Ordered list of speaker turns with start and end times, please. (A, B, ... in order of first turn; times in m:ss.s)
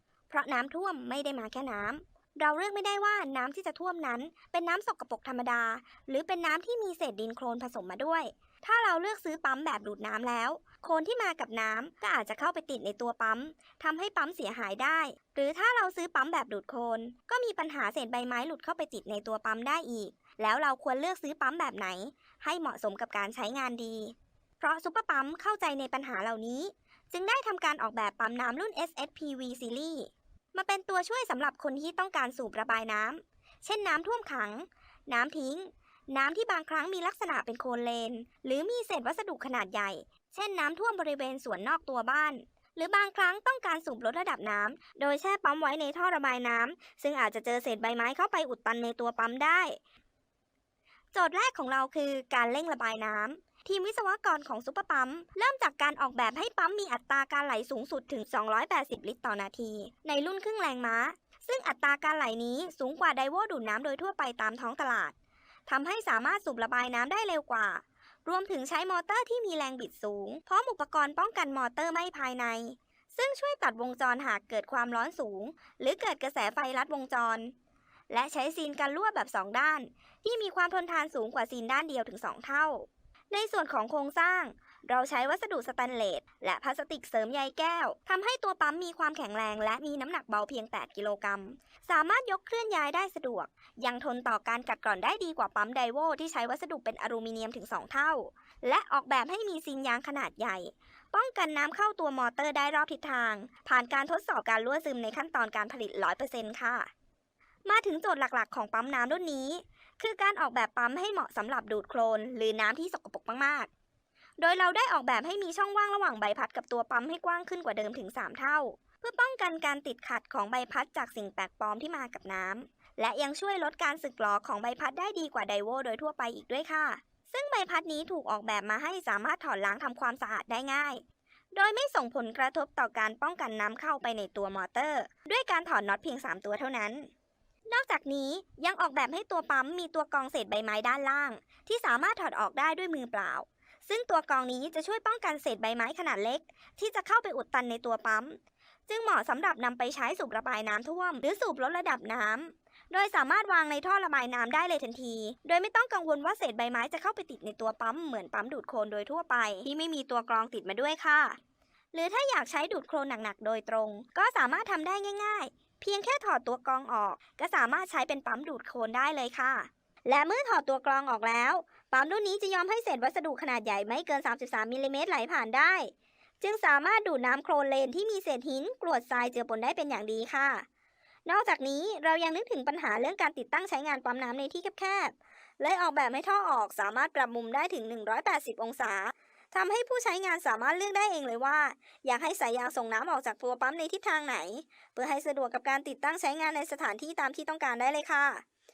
0:00.3-0:49.8 A
0:51.1-1:05.1 A
1:05.7-1:17.5 A
1:18.1-1:46.9 A
1:47.6-1:53.7 A
1:54.4-2:17.1 A
2:17.7-2:41.4 A
2:41.9-3:00.6 A
3:01.2-3:18.4 A